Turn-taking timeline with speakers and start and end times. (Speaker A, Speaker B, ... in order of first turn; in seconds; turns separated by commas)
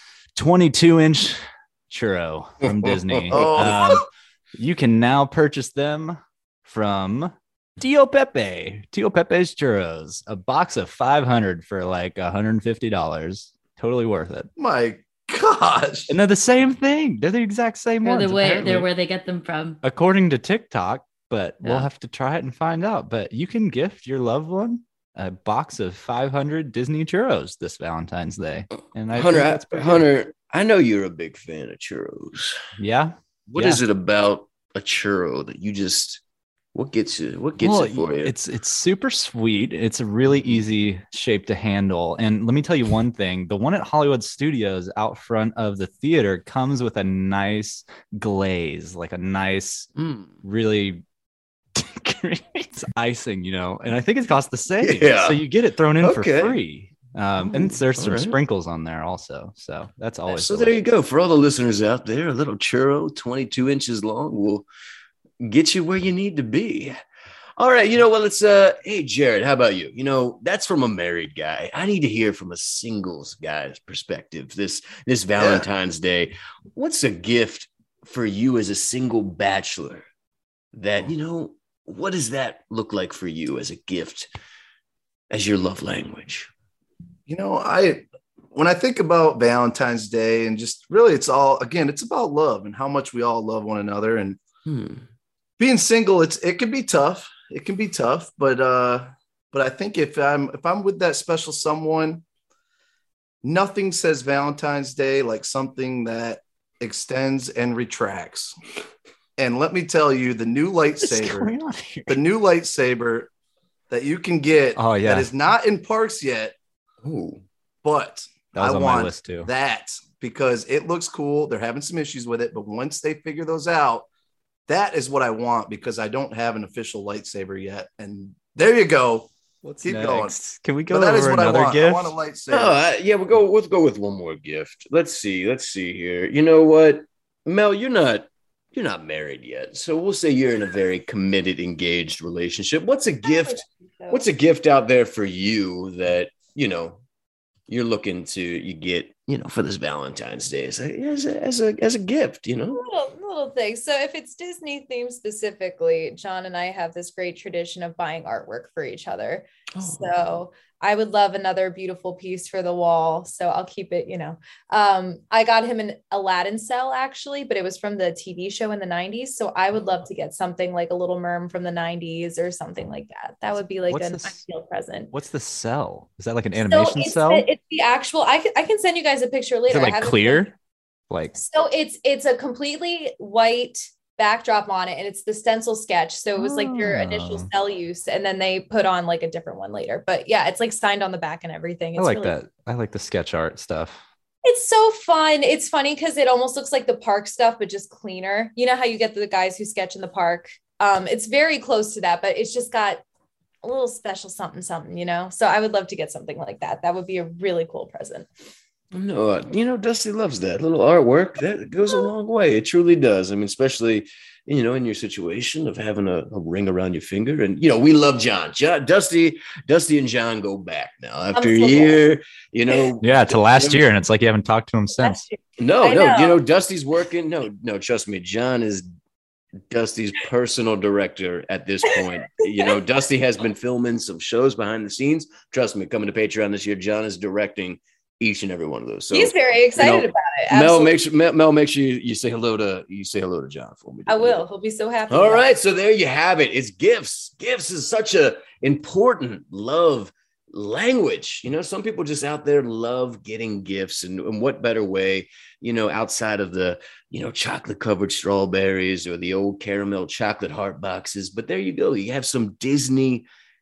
Speaker A: 0.4-14.5, Speaker B: 2.6-3.9, Speaker C: 3.3-4.0, Speaker C: 14.6-16.1, Speaker A: 16.1-18.9, Speaker D: 18.0-19.8, Speaker A: 19.8-30.1, Speaker D: 21.6-21.9, Speaker B: 29.1-32.6, Speaker A: 32.8-33.8, Speaker B: 33.5-36.2, Speaker B: 36.8-38.3, Speaker A: 37.6-49.9, Speaker B: 40.3-40.6, Speaker B: 50.0-50.4, Speaker A: 50.4-51.0, Speaker A: 51.8-60.8, Speaker B: 54.8-55.4, Speaker B: 56.0-56.6, Speaker B: 57.4-58.4, Speaker B: 60.3-64.7, Speaker B: 65.4-67.0, Speaker B: 67.6-80.1, Speaker C: 75.4-75.7, Speaker B: 80.7-84.3, Speaker B: 85.3-86.5, Speaker C: 87.3-94.4, Speaker B: 94.7-95.1, Speaker C: 95.6-102.2, Speaker C: 103.4-108.5, Speaker C: 109.4-111.5, Speaker A: 111.0-112.2, Speaker C: 112.1-113.3, Speaker C: 113.9-116.6, Speaker A: 114.8-115.3, Speaker B: 117.0-117.4, Speaker C: 117.8-124.1, Speaker A: 118.5-119.5, Speaker C: 124.7-129.3, Speaker A: 129.6-132.1, Speaker C: 129.8-130.3, Speaker C: 130.9-132.8, Speaker B: 132.5-147.0, Speaker E: 143.2-144.2, Speaker B: 147.7-152.8, Speaker E: 152.7-175.1, Speaker B: 159.8-160.2, Speaker A: 173.9-174.4, Speaker A: 175.1-177.5, Speaker E: 176.6-180.5, Speaker A: 179.7-180.5, Speaker A: 181.1-181.3, Speaker E: 181.3-192.3, Speaker A: 186.4-187.5, Speaker A: 192.0-194.0, Speaker E: 194.4-203.0, Speaker E: 203.6-208.3, Speaker B: 208.9-223.8, Speaker E: 221.3-222.0, Speaker A: 223.0-225.2, Speaker E: 225.0-226.4, Speaker B: 225.6-228.9, Speaker B: 229.7-244.4, Speaker E: 239.1-241.0, Speaker E: 244.1-245.5, Speaker B: 245.1-263.3